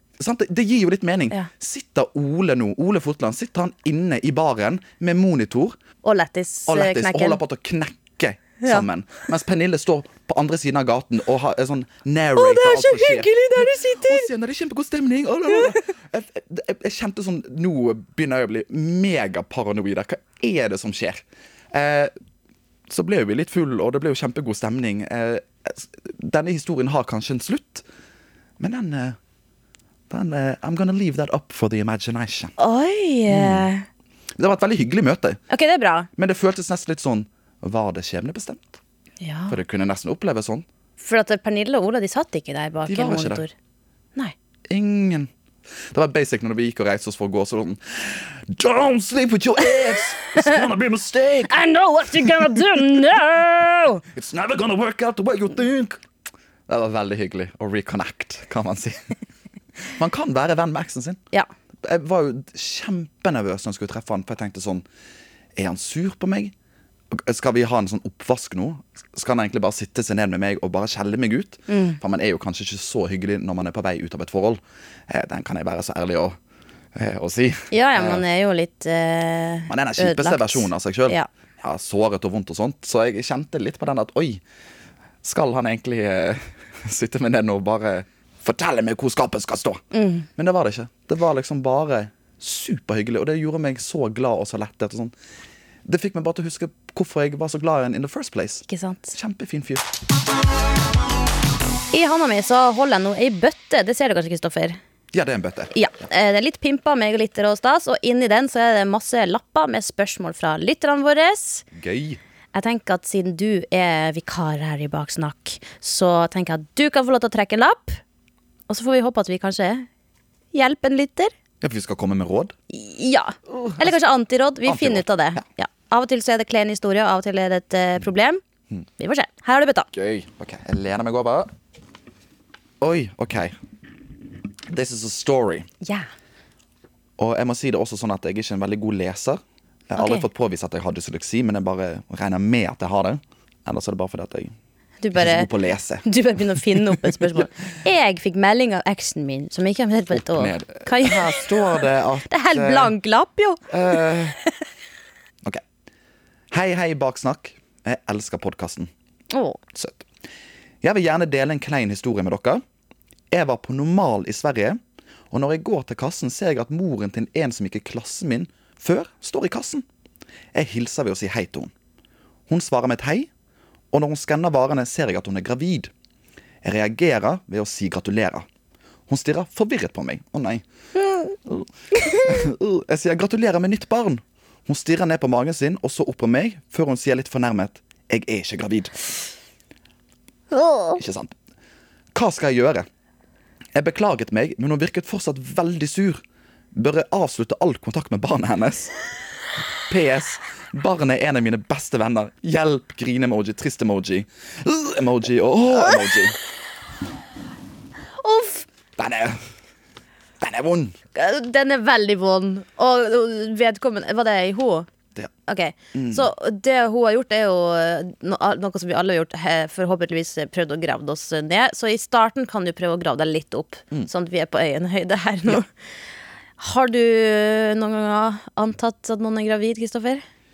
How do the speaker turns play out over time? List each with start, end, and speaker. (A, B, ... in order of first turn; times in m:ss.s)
0:00.2-0:05.8 A
0:06.0-0:07.4 B
0:06.7-0:22.1 A
0:08.6-0:08.8 B
0:12.4-0:14.3 B
0:15.5-0:15.8 B
0:22.9-0:27.8 A
0:28.6-0:29.2 A
0:30.1-0:32.5 A
0:32.6-0:33.8 B
0:33.3-0:33.7 A
0:34.4-0:35.4 A
0:35.5-0:36.1 B
0:36.2-0:38.8 A
0:39.2-0:39.6 B
0:39.5-0:40.6 A
0:41.0-0:43.5 B
0:42.8-0:43.4 A
0:44.7-0:45.3 A
0:45.9-0:51.6 A
0:51.5-0:54.0 B
0:52.1-0:52.8 A
0:54.1-0:56.0 A
0:56.7-0:59.1 A
0:59.8-1:01.2 A
1:01.8-1:04.8 A
1:05.6-1:06.5 A
1:07.1-1:16.4 A
1:11.7-1:12.0 B
1:16.9-1:18.2 A
1:17.7-1:21.3 B
1:19.7-1:24.4 A
1:25.2-1:29.8 A
1:29.9-1:30.3 B
1:30.4-1:35.1 A
1:35.8-1:39.8 A
1:38.7-1:39.1 B
1:41.9-1:44.8 B
1:45.1-1:45.7 A
1:45.7-1:51.6 B
1:51.7-1:52.2 A
1:52.5-1:58.0 B
1:58.7-1:59.9 B
2:00.5-2:01.3 B
2:01.6-2:02.5 A
2:02.7-2:08.4 B
2:03.5-2:03.9 A
2:04.6-2:05.4 A
2:09.0-2:09.9 B
2:09.9-2:11.5 A
2:12.8-2:13.6 A
2:14.7-2:15.7 A
2:15.8-2:16.1 B
2:17.2-2:24.5 A
2:20.0-2:20.2 B
2:25.0-2:25.5 B
2:25.1-2:27.5 A
2:26.0-2:31.5 B
2:30.1-2:32.9 A
2:32.3-2:34.0 B
2:33.7-2:34.4 A
2:36.5-2:38.9 A
2:39.3-2:39.6 B
2:39.7-2:40.0 A
2:40.8-2:42.6 A
2:43.3-2:44.8 A
2:45.3-2:49.8 A
2:50.5-2:51.7 A
2:52.5-2:53.3 A
2:53.9-2:55.9 A
2:56.6-2:58.4 A
2:59.1-3:00.6 A
3:01.4-3:09.0 A
3:10.5-3:11.0 B
3:11.0-3:11.3 A
3:12.1-3:12.9 A
3:13.7-3:16.2 A
3:16.7-3:18.9 A
3:19.9-3:26.4 A
3:28.2-3:28.6 B
3:29.0-3:29.4 A
3:30.4-3:31.0 A
3:31.1-3:34.9 B
3:35.5-3:45.7 B
3:35.9-3:36.3 A
3:46.6-3:50.2 B